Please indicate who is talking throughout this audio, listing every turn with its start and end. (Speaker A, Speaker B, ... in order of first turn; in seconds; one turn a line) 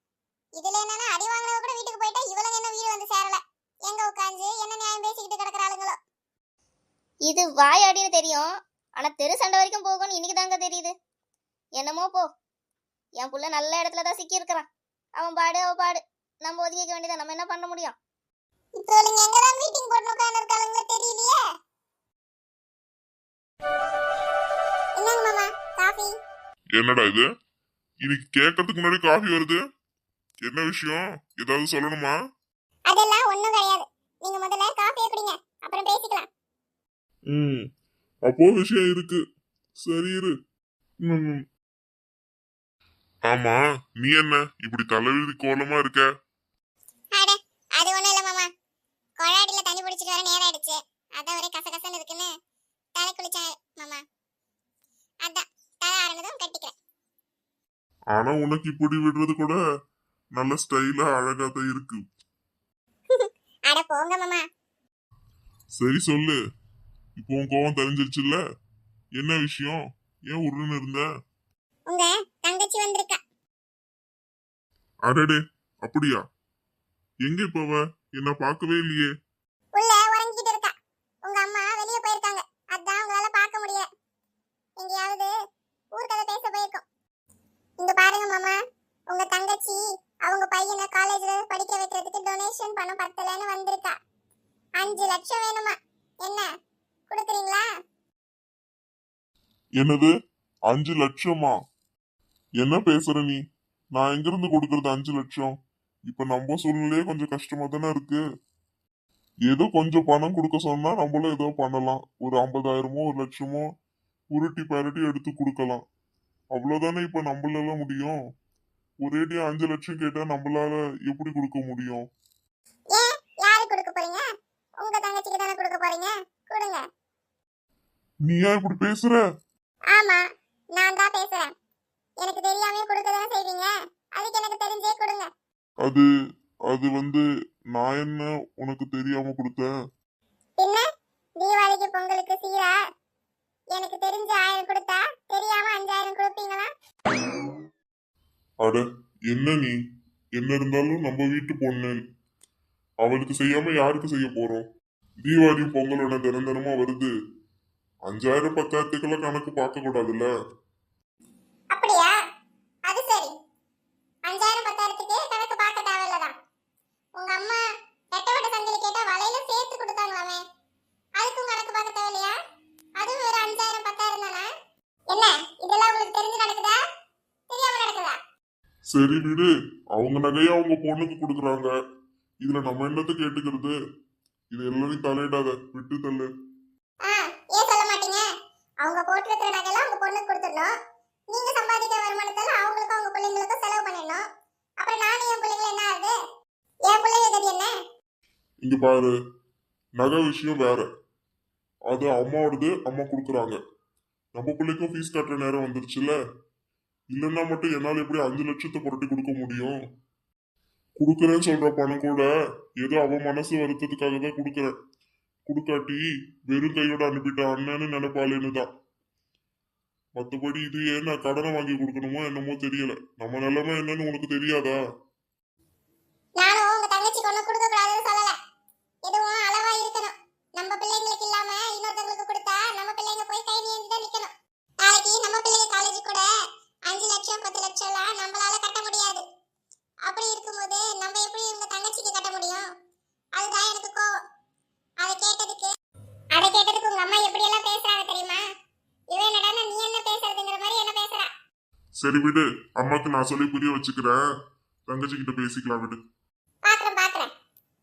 Speaker A: 0.6-6.0
Speaker B: 7.3-10.9
Speaker B: 11.8-12.2
Speaker B: 13.2-17.9
Speaker A: 18.8-21.4
Speaker A: 25.0-26.1
Speaker C: 26.8-27.2
Speaker C: 28.0-29.6
Speaker C: 30.4-32.1
Speaker A: 32.9-36.3
Speaker C: 37.3-37.6
Speaker C: 38.3-39.2
Speaker C: 39.8-40.3
Speaker C: 41.0-41.4
Speaker C: 43.3-46.1
Speaker A: 47.1-48.5
Speaker A: 49.2-52.3
Speaker A: 53.0-54.0
Speaker A: 55.2-56.7
Speaker C: 58.1-59.6
Speaker C: 60.4-62.0
Speaker A: 63.1-64.4
Speaker C: 65.8-66.4
Speaker C: 67.2-68.4
Speaker C: 69.2-71.0
Speaker A: 71.9-73.2
Speaker C: 75.0-76.2
Speaker C: 77.2-79.1
Speaker A: 79.7-80.7
Speaker A: 81.2-83.9
Speaker A: 84.8-85.3
Speaker A: 85.9-86.8
Speaker A: 87.8-93.9
Speaker A: 94.8-96.5
Speaker A: 97.1-97.7
Speaker C: 99.8-100.1
Speaker C: 100.7-101.5
Speaker C: 102.6-103.4
Speaker C: 103.9-105.5
Speaker C: 106.1-108.2
Speaker C: 109.5-113.6
Speaker C: 114.3-115.8
Speaker C: 116.5-118.2
Speaker C: 119.0-122.0
Speaker A: 122.9-124.2
Speaker A: 124.8-126.8
Speaker C: 128.2-129.2
Speaker A: 129.9-130.2
Speaker A: 130.7-131.5
Speaker A: 132.2-135.3
Speaker C: 136.7-137.2
Speaker C: 137.7-139.7
Speaker A: 140.6-140.8
Speaker A: 141.4-142.8
Speaker A: 143.7-146.7
Speaker C: 148.6-149.8
Speaker C: 150.4-152.0
Speaker C: 153.0-154.7
Speaker C: 155.2-157.1
Speaker C: 158.1-160.3
Speaker A: 161.7-162.2
Speaker A: 162.9-163.3
Speaker A: 164.2-166.3
Speaker A: 167.2-170.4
Speaker A: 171.2-172.4
Speaker A: 173.0-174.5
Speaker A: 175.1-176.8
Speaker A: 177.5-178.2
Speaker C: 178.9-181.7
Speaker C: 182.4-183.7
Speaker C: 184.5-186.3
Speaker A: 187.0-188.3
Speaker A: 188.8-190.7
Speaker A: 191.3-194.2
Speaker A: 194.8-196.2
Speaker A: 196.8-197.7
Speaker C: 198.6-199.1
Speaker C: 200.0-200.9
Speaker C: 201.9-203.6
Speaker C: 204.3-206.1
Speaker C: 207.1-209.8
Speaker C: 211.0-212.3
Speaker C: 212.8-214.7
Speaker C: 215.5-218.7
Speaker C: 220.2-224.8
Speaker A: 226.4-228.3
Speaker A: 229.0-234.3
Speaker A: 234.8-236.3
Speaker A: 236.9-239.2
Speaker A: 240.1-242.7
Speaker A: 243.3-244.1
Speaker A: 245.0-245.7
Speaker A: 246.3-248.4
Speaker A: 249.1-251.3
Speaker C: 252.0-254.2
Speaker C: 254.9-256.0
Speaker A: 256.6-257.3